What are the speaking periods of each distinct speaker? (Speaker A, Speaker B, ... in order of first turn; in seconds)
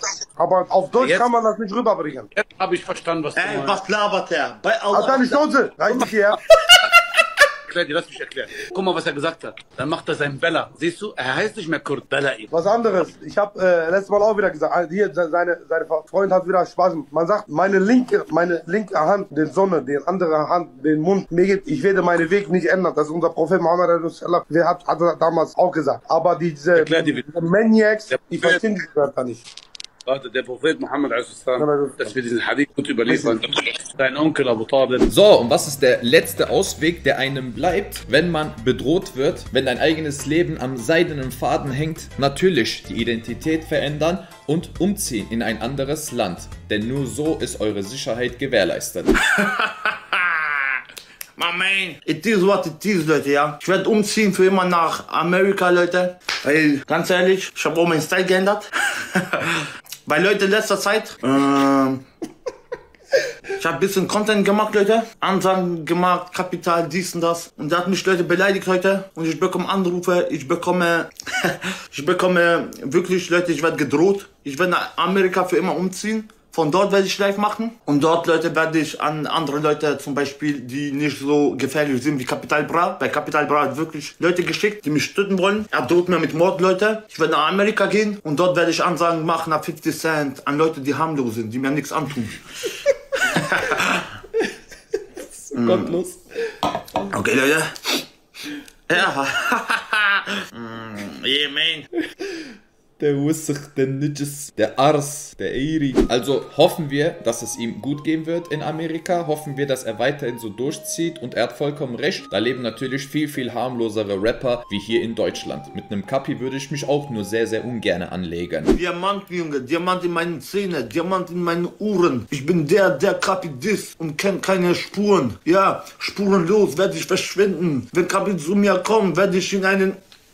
Speaker A: 0.4-2.3, 4.9-6.4, 12.5-29.5, 31.6-32.2, 33.1-33.4
Speaker B: 1.0-1.3, 2.4-3.8, 5.9-6.1, 7.7-12.5, 26.7-27.5, 28.1-28.6, 30.1-35.0
Speaker C: 3.4-5.5, 49.4-50.5, 51.4-62.0, 63.6-92.4, 93.3-94.1, 95.5-96.0, 97.1-97.7, 98.9-101.9, 118.8-130.0
Speaker D: 35.1-49.1, 95.2-96.2, 103.0-118.7